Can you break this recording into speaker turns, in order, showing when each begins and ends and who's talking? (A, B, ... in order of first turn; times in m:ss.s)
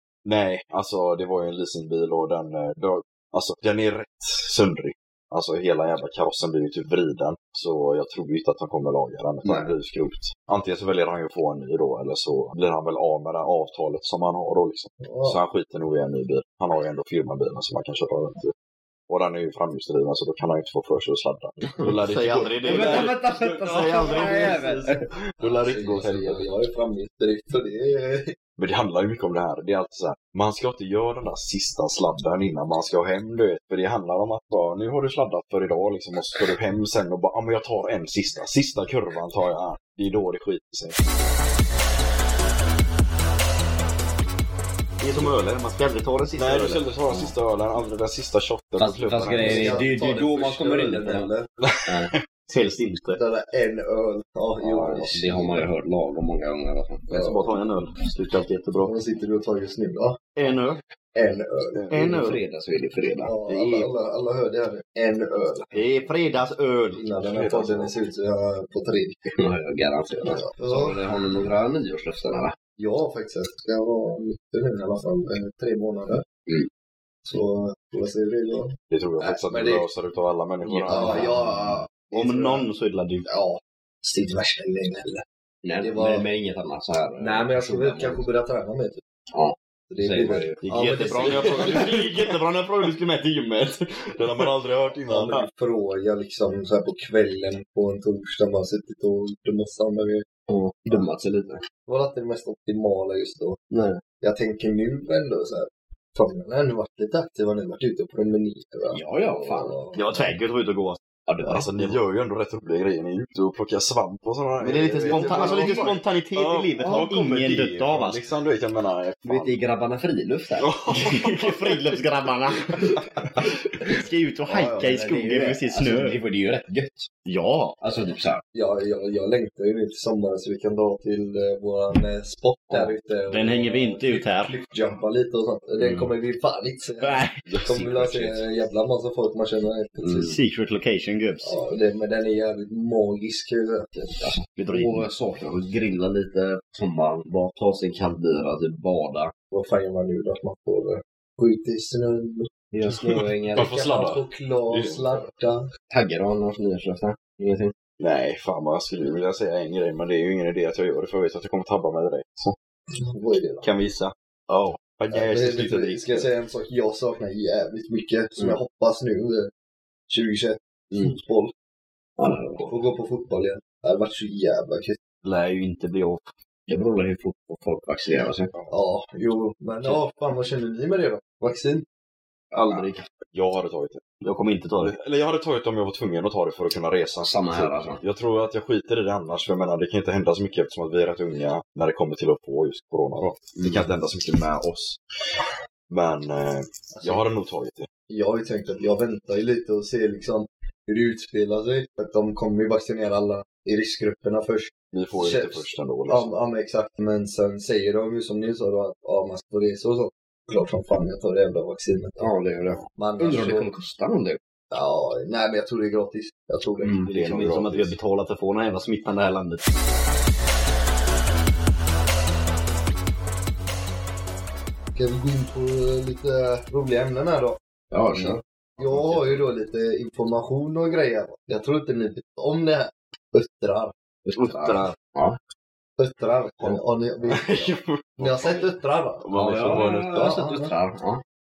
0:00.2-0:18.5 A
0:09.4-0:09.7 B
0:15.0-0:15.4 C
0:19.1-0:26.4 A
0:21.8-0:25.0 D
0:22.6-0:25.0 B
0:25.4-0:28.3 C
0:28.6-0:41.0 A
0:45.0-0:46.8 D
0:46.4-0:49.8 A
0:48.8-0:51.3 B
0:49.4-0:51.5 C
0:51.6-0:51.9 A
0:51.8-0:52.1 B
0:52.5-0:53.2 D
0:53.1-0:55.6 C
0:54.6-0:57.0 B
0:57.1-0:58.9 D
0:57.1-0:57.5 C
0:58.8-1:00.3 C
1:00.4-1:00.8 D
1:01.1-1:02.2 C
1:01.7-1:02.1 A
1:01.9-1:02.4 D
1:02.1-1:03.4 B
1:03.2-1:05.9 C
1:03.5-1:03.9 D
1:05.7-1:07.0 D
1:06.9-1:09.2 C
1:07.2-1:08.0 A
1:09.3-1:12.5 B
1:10.4-1:11.5 C
1:12.8-1:16.2 C
1:17.2-1:18.8 C
1:18.9-1:21.3 A
1:19.5-1:19.8 C
1:20.6-1:21.3 B
1:20.9-1:22.7 C
1:21.9-1:23.3 D
1:23.2-1:25.2 C
1:25.6-1:28.2 B
1:25.8-1:26.3 C
1:27.2-1:29.0 C
1:29.3-1:30.6 B
1:29.9-1:32.0 C
1:30.6-1:34.9 D
1:34.2-1:35.3 A
1:35.0-1:40.2 C
1:40.5-1:41.6 B
1:41.8-1:43.6 C
1:43.7-1:44.0 B
1:44.2-1:50.0 C
1:48.9-1:49.8 B
1:49.9-1:51.0 D
1:51.3-1:51.7 B
1:51.4-1:59.5 A
1:51.6-1:51.9 D
1:54.6-1:58.2 D
1:55.1-1:55.7 C
1:59.2-2:03.0 B
2:00.6-2:02.0 A
2:02.7-2:03.4 A
2:03.8-2:06.2 D
2:04.4-2:07.1 B
2:07.2-2:07.8 D
2:07.8-2:08.4 B
2:08.5-2:20.4 C
2:13.3-2:14.5 D
2:15.8-2:16.1 B
2:17.0-2:18.3 B
2:17.5-2:18.4 A
2:20.0-2:21.5 D
2:21.4-2:24.2 C
2:24.2-2:29.3 B
2:24.6-2:25.1 D
2:29.5-2:32.6 C
2:32.7-2:33.7 B
2:33.5-2:35.0 A
2:33.5-2:35.7 C
2:35.9-2:37.7 B
2:38.0-2:42.5 A
2:42.9-2:43.6 C
2:43.6-2:44.7 D
2:44.5-2:46.3 A
2:45.1-2:49.5 C
2:50.1-2:51.5 C
2:52.2-2:52.7 B
2:52.6-2:55.0 C
2:55.2-2:56.2 D
2:56.7-2:58.5 B
2:58.7-3:01.8 C
3:02.5-3:03.0 D
3:03.3-3:04.0 A
3:04.2-3:05.0 D
3:04.8-3:15.0 A
3:07.2-3:08.0 B
3:15.9-3:17.9 A
3:16.9-3:17.2 C
3:18.1-3:32.3 C
3:24.9-3:26.3 A
3:32.2-3:34.4 B
3:32.9-3:33.7 C
3:34.7-3:37.0 C
3:36.8-3:37.1 B
3:37.0-3:39.6 D
3:37.1-3:37.9 A
3:44.9-3:47.6 C
3:47.9-3:49.4 B
3:48.1-3:53.9 C
3:54.3-3:55.4 B
3:54.3-3:54.9 D
3:56.0-4:00.7 C
3:57.3-3:58.7 A
3:59.3-4:00.2 A
3:59.3-3:59.8 D
3:59.3-4:01.2 B